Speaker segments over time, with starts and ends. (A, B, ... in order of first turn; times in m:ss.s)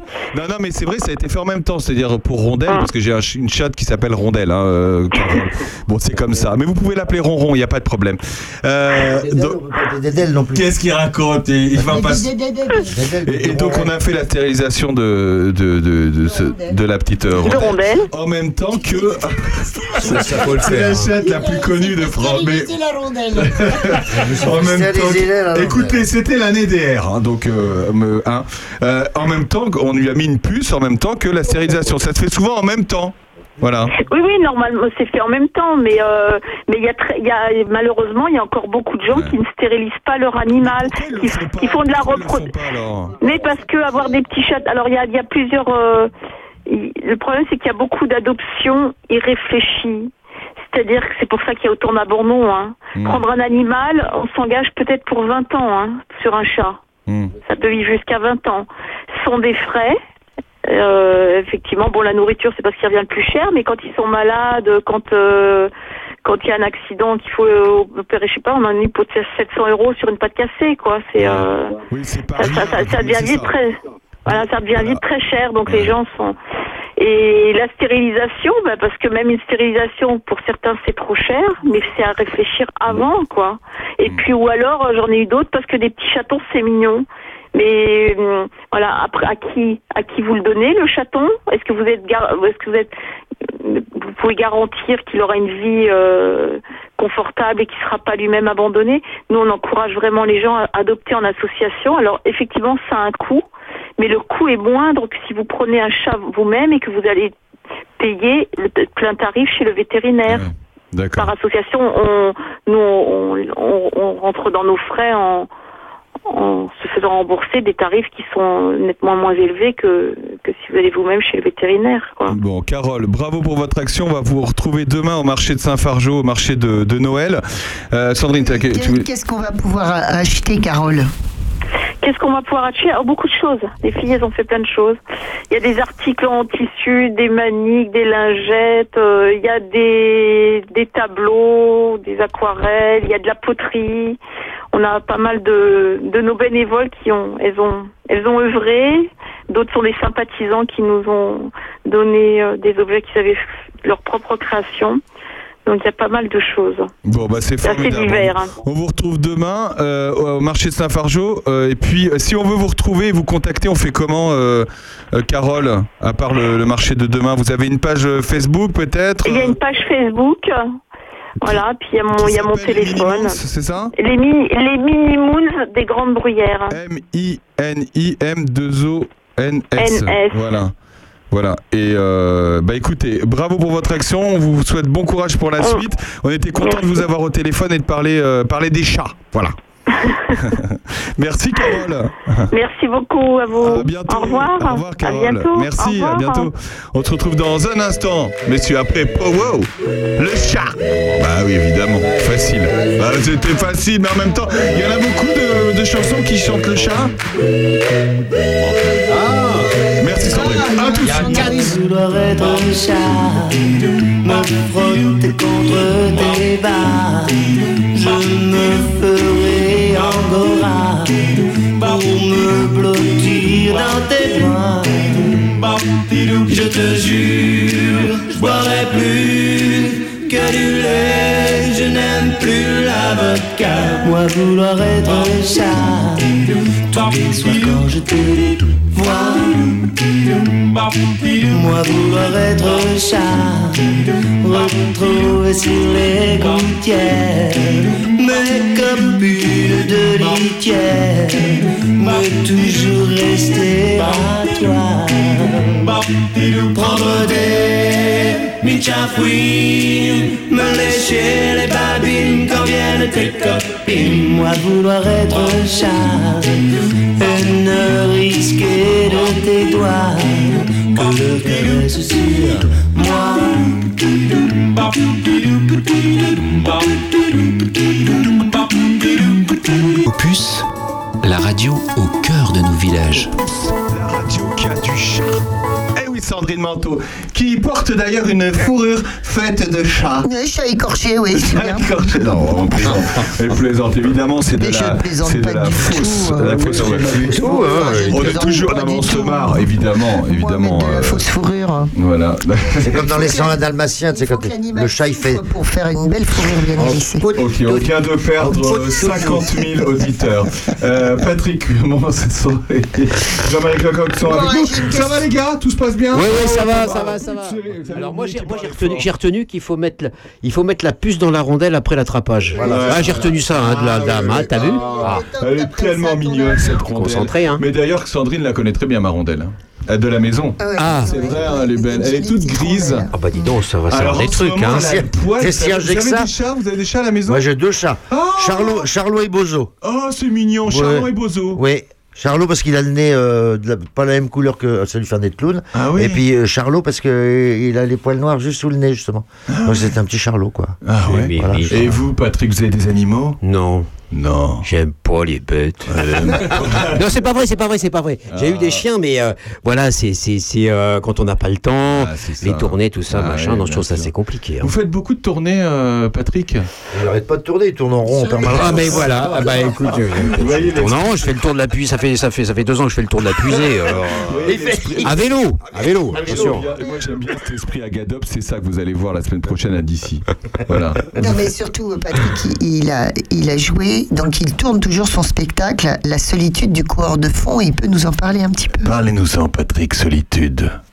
0:00.3-0:09.6 A
0:09.1-0:10.7 B
0:10.5-0:12.3 A
0:11.9-0:12.9 C
0:12.9-0:13.9 B
0:13.2-0:22.8 A
0:16.2-0:16.8 C
0:17.4-0:18.1 D
0:18.8-0:19.1 C
0:20.1-0:21.1 E
0:20.3-0:20.6 B
0:21.2-0:23.7 C
0:23.3-0:33.9 A
0:24.1-0:26.0 B
0:34.0-0:42.5 D
0:39.1-0:39.4 A
0:40.6-0:43.2 A
0:43.2-0:46.1 D
0:43.2-0:44.2 C
0:46.7-0:50.1 D
0:50.7-0:56.8 D
0:53.0-0:53.2 A
0:57.1-0:57.3 A
0:57.4-1:00.0 D
1:00.7-1:05.7 D
1:06.2-1:11.8 D
1:11.2-1:13.6 A
1:12.4-1:16.4 D
1:14.3-1:15.0 A
1:15.7-1:16.0 A
1:17.0-1:32.9 D
1:33.5-1:43.5 D
1:44.0-1:47.3 D
1:48.0-1:50.4 D
1:50.3-1:51.3 A
1:51.2-1:55.5 D
1:56.3-2:02.4 D
2:02.3-2:09.1 A
2:08.4-2:11.1 C
2:12.0-2:15.0 D
2:15.5-2:24.2 D
2:24.7-2:35.0 D
2:35.7-2:36.9 D
2:37.0-2:49.6 A
2:37.6-2:38.5 D
2:49.2-2:50.6 D
2:51.4-2:53.4 D
2:51.4-2:53.9 A
2:54.0-2:56.8 D
2:56.7-3:00.7 A
2:59.8-3:00.4 D
3:01.3-3:09.6 A
3:06.6-3:07.0 D
3:09.9-3:10.5 D
3:10.4-3:12.5 A
3:12.5-3:16.5 D
3:13.6-3:27.2 A
3:28.6-3:29.2 A
3:30.0-3:31.6 A
3:30.2-3:31.4 C
3:31.2-4:40.0 F
4:40.1-4:40.6 G
4:41.2-4:43.3 G
4:43.9-4:45.4 A
4:46.0-4:50.3 A
4:50.2-4:52.4 C
4:51.3-4:57.6 A
4:54.5-4:56.8 C
4:56.6-4:58.3 B
4:57.3-4:59.7 C
4:57.8-4:58.0 E
4:58.1-5:01.2 A
5:00.2-5:01.9 C
5:02.0-5:03.1 A
5:02.8-5:05.4 B
5:02.9-5:07.8 C
5:07.3-5:19.1 A
5:08.9-5:09.5 C
5:14.2-5:15.2 C
5:16.1-5:25.2 E
5:22.5-5:23.3 B
5:22.6-5:33.1 A
5:24.0-5:25.1 B
5:24.6-5:26.8 C
5:26.8-5:27.6 E
5:30.6-5:33.5 C
5:30.8-5:31.3 E
5:33.1-5:34.9 E
5:33.9-5:37.5 A
5:34.8-5:36.3 B
5:37.3-5:39.7 B
5:38.1-5:38.8 A
5:39.8-5:41.6 A
5:40.7-5:50.8 B
5:45.7-5:46.2 A
5:49.5-5:49.9 A
5:50.8-5:53.4 A
5:51.1-5:52.0 E
5:51.3-5:52.0 B
5:53.4-5:53.9 E
5:54.1-5:54.7 A
5:54.6-6:04.7 E
5:55.9-5:57.1 A
5:58.3-5:58.8 A
6:01.9-6:06.7 A
6:06.9-6:09.7 B
6:08.3-6:16.7 E
6:08.4-6:11.4 A
6:14.0-6:15.3 A
6:14.4-6:16.7 B
6:16.1-6:21.1 A
6:21.2-6:28.9 C
6:28.8-6:30.8 A